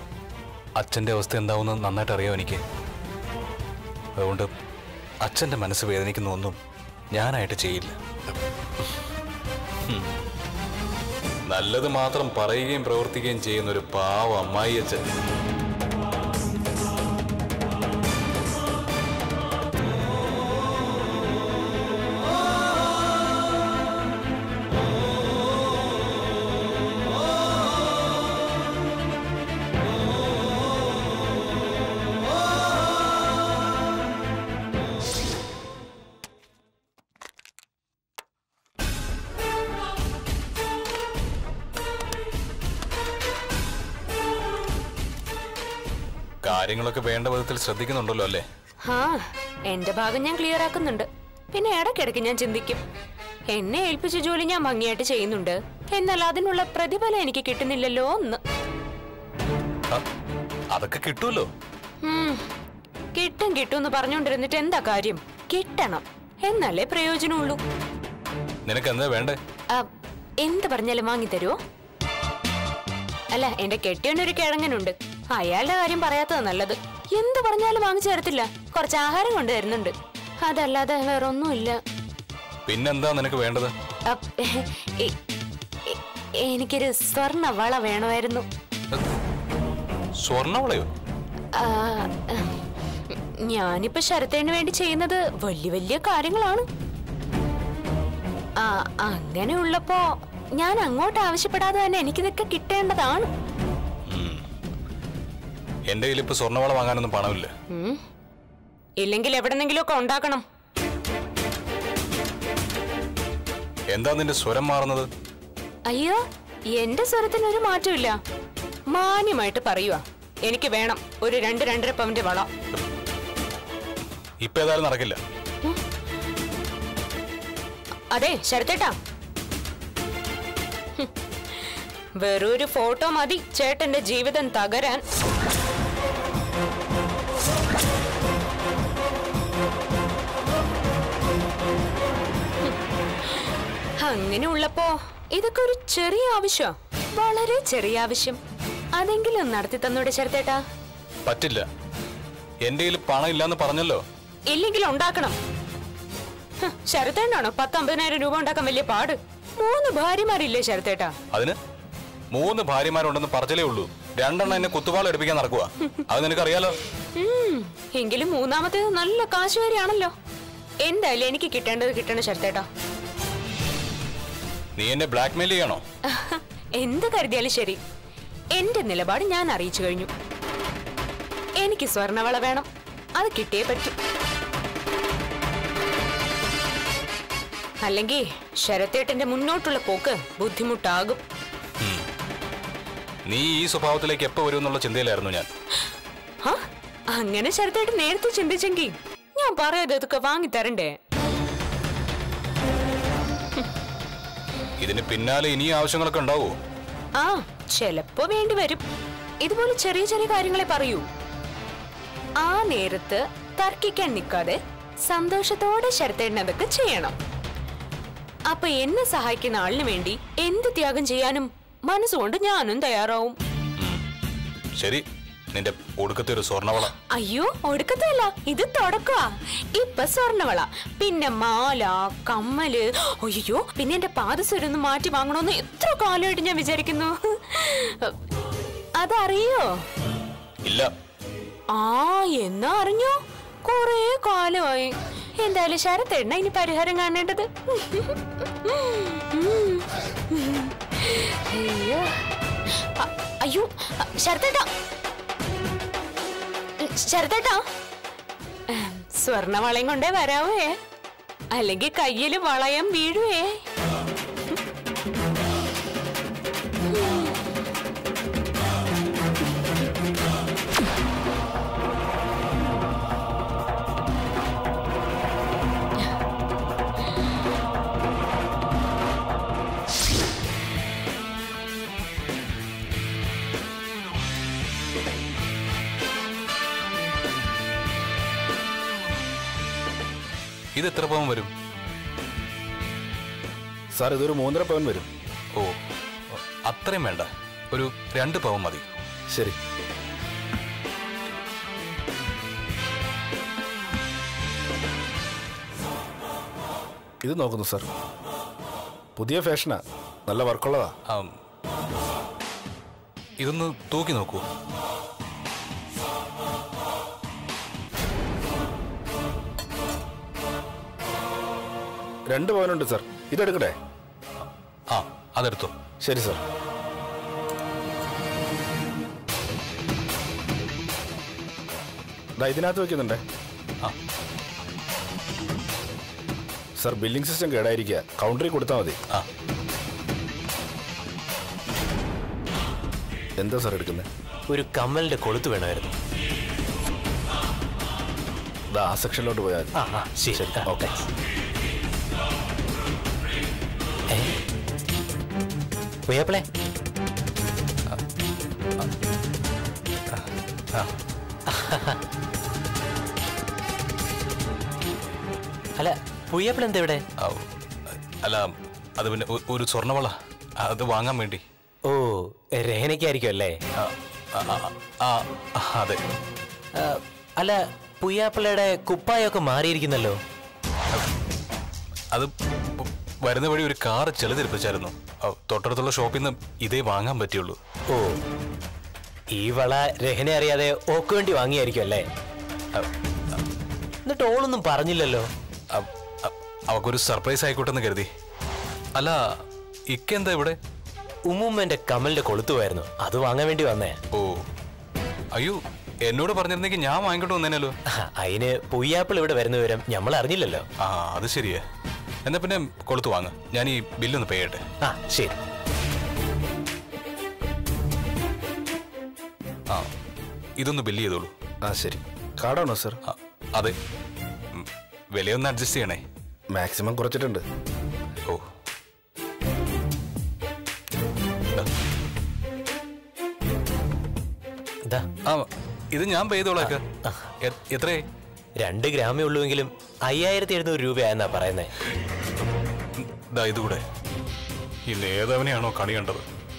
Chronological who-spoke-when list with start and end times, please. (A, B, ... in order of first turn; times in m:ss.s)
0:00.8-0:02.6 A
0:04.2-0:04.5 A
0:05.2-0:06.6 A
0:07.1-0:08.0 A
0:11.5-0:15.0 A
0:46.4-0:48.4 A
0:48.8-0:52.8 B
0:53.5-0:58.4 B
1:00.7-1:01.5 A
1:02.0-1:02.4 B
1:03.1-1:07.6 B
1:08.7-1:09.4 A
1:10.4-1:11.6 B
1:13.3-1:21.8 B
1:22.7-1:23.7 A
1:24.1-1:25.2 B
1:25.8-1:28.4 B
1:30.2-1:30.9 A
1:31.5-1:32.5 B
1:33.1-1:36.7 B
1:38.6-1:43.3 B
1:44.1-1:44.4 A
1:45.9-1:47.5 A
1:47.7-1:48.0 B
1:49.0-1:50.4 B
1:53.9-1:55.1 A
1:55.9-1:56.2 B
1:56.7-1:58.2 B
1:58.9-2:02.5 B
2:04.4-2:05.2 A
2:08.1-2:09.0 B
2:11.0-2:15.0 B
2:22.6-2:28.4 B
2:28.9-2:30.6 B
2:31.2-2:31.6 A
2:32.6-2:34.0 A
2:34.5-2:35.4 B
2:36.6-2:41.1 B
2:41.3-2:41.6 A
2:42.3-2:46.8 A
2:47.1-2:50.1 B
2:50.8-2:52.7 B
2:54.8-2:55.8 A
2:56.1-2:57.8 B
2:58.5-3:00.1 B
3:01.6-3:03.9 B
3:07.8-3:11.2 B
3:11.8-3:12.0 A
3:13.3-3:15.5 A
3:16.4-3:21.0 B
3:24.8-3:26.5 A
3:27.2-3:28.8 B
3:29.4-3:31.0 B
3:32.4-3:37.1 B
3:38.5-3:43.4 B
3:43.8-3:44.0 A
3:44.8-3:46.9 A
3:47.0-3:58.1 B
3:59.0-3:59.8 B
4:00.6-4:00.9 A
4:01.7-4:12.2 B
4:12.8-4:14.7 B
4:16.8-4:17.6 B
4:18.7-4:20.8 B
4:21.5-4:23.6 B
4:26.9-4:27.4 B
4:50.8-4:51.5 A
4:53.9-4:55.1 C
4:56.3-4:58.8 A
5:07.2-5:07.8 C
5:09.2-5:10.9 C
5:11.1-5:11.3 A
5:13.4-5:14.4 A
5:22.3-5:23.7 C
5:24.9-5:25.7 A
5:26.0-5:26.4 C
5:32.4-5:33.2 C
5:36.8-5:39.0 C
5:43.4-5:44.0 C
5:44.5-5:45.9 D
5:48.7-5:49.7 C
5:49.8-5:51.0 D
5:50.3-5:50.9 C
5:56.1-5:56.4 D
6:00.1-6:00.9 A
6:01.5-6:02.0 D
6:05.8-6:07.0 D
6:07.2-6:07.4 A
6:08.2-6:11.4 A
6:11.8-6:13.6 D
6:13.8-6:16.0 A
6:16.8-6:20.2 D
6:22.1-6:27.6 A
6:27.9-6:28.2 D
6:29.3-6:32.1 D
6:34.0-6:35.3 D
6:35.7-6:38.1 A
6:39.9-6:40.6 A
6:41.3-6:44.0 D
6:44.1-6:44.4 A
6:45.4-6:47.8 A
6:47.9-6:50.6 D
6:50.8-6:51.6 A
6:52.2-6:54.6 A
6:54.8-6:55.4 D
7:00.6-7:01.3 A
7:01.6-7:03.0 C
7:03.0-7:03.7 A
7:04.5-7:06.0 A
7:06.5-7:07.4 C
7:15.3-7:16.8 A
7:16.6-7:17.2 D
7:17.4-7:18.0 A
7:18.6-7:21.7 D
7:23.0-7:23.8 A
7:24.9-7:26.2 A